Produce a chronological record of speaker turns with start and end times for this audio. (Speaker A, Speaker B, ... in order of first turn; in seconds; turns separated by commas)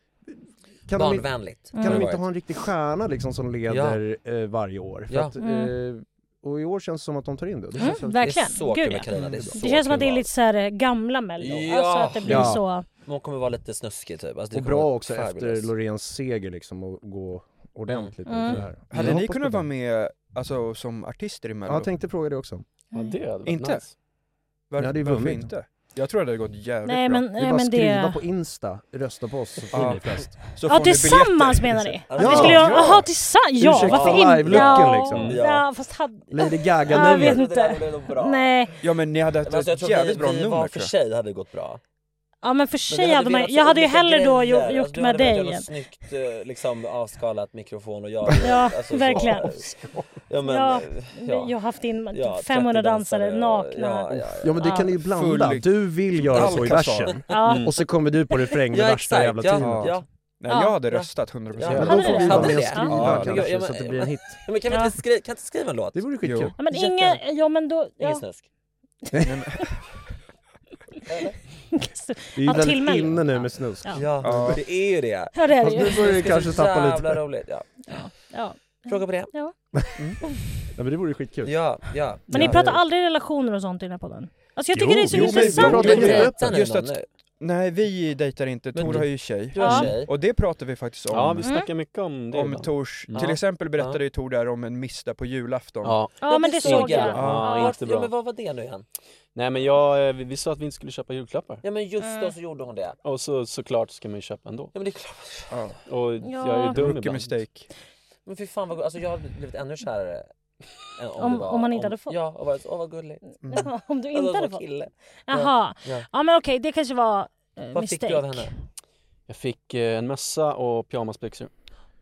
Speaker A: 0.3-8.3, Speaker B: 0.9-2.2, Speaker C: 1.7-2.0, Speaker B: 3.7-4.0, Speaker B: 5.1-5.3, Speaker C: 5.4-5.7, Speaker C: 7.8-12.8, Speaker B: 8.2-10.3, Speaker A: 9.1-9.6, Speaker B: 11.4-15.7, Speaker A: 12.3-12.6, Speaker A: 14.5-19.7, Speaker B: 17.9-18.6, Speaker C: 18.3-18.6, Speaker D: 18.9-21.9, Speaker A: 21.6-22.6, Speaker E: 22.9-23.9, Speaker D: 23.4-23.8, Speaker D: 24.7-27.2, Speaker A: 24.8-25.5, Speaker C: 26.9-28.2, Speaker A: 27.3-30.4, Speaker D: 29.7-33.1, Speaker C: 30.7-38.7, Speaker B: 32.1-33.0, Speaker A: 32.1-33.0, Speaker A: 33.5-35.4, Speaker B: 33.8-35.7, Speaker A: 36.3-37.4, Speaker B: 36.9-38.9, Speaker D: 38.8-40.9, Speaker B: 39.4-41.8, Speaker C: 42.4-45.7, Speaker B: 42.9-49.7, Speaker C: 48.4-49.6, Speaker A: 49.2-50.0, Speaker B: 50.3-51.5, Speaker C: 50.4-54.9, Speaker B: 52.1-54.6, Speaker A: 54.3-60.0, Speaker D: 55.0-57.3, Speaker B: 56.3-57.4, Speaker C: 57.3-57.7, Speaker E: 57.4-57.7, Speaker B: 58.7-60.0, Speaker D: 59.5-63.5, Speaker C: 60.5-60.8, Speaker B: 60.9-67.2, Speaker A: 61.6-64.4, Speaker C: 61.8-62.9, Speaker A: 65.9-66.5, Speaker D: 66.2-66.5, Speaker C: 66.6-68.2, Speaker B: 68.0-68.5, Speaker D: 69.2-69.8, Speaker B: 71.1-71.3, Speaker C: 71.7-74.0, Speaker A: 72.3-74.6, Speaker B: 73.9-78.0, Speaker D: 74.2-74.6, Speaker C: 75.3-76.2, Speaker A: 75.6-77.2, Speaker C: 77.9-79.5, Speaker B: 78.8-79.3, Speaker A: 80.7-81.5, Speaker B: 81.4-82.6, Speaker A: 82.3-82.8, Speaker C: 82.3-86.3, Speaker A: 84.8-86.6, Speaker D: 84.9-91.6, Speaker B: 85.7-87.0, Speaker B: 88.7-90.1, Speaker C: 89.5-89.9, Speaker E: 91.1-93.3, Speaker C: 91.4-91.7, Speaker D: 92.3-96.0, Speaker B: 93.1-94.0, Speaker E: 95.8-98.1, Speaker C: 96.2-97.8, Speaker B: 96.2-98.8, Speaker D: 97.1-97.5, Speaker E: 99.3-101.6, Speaker B: 101.6-103.0, Speaker C: 102.0-102.3, Speaker E: 103.0-104.7, Speaker B: 104.7-105.6, Speaker D: 105.5-105.8, Speaker E: 105.8-107.4, Speaker C: 106.2-106.8, Speaker D: 106.7-107.7, Speaker B: 108.2-110.3, Speaker B: 110.9-113.6, Speaker C: 111.2-112.2, Speaker D: 113.4-113.7, Speaker C: 113.5-114.6, Speaker B: 114.1-116.1, Speaker C: 115.3-118.5, Speaker B: 117.7-118.5, Speaker E: 119.3-121.5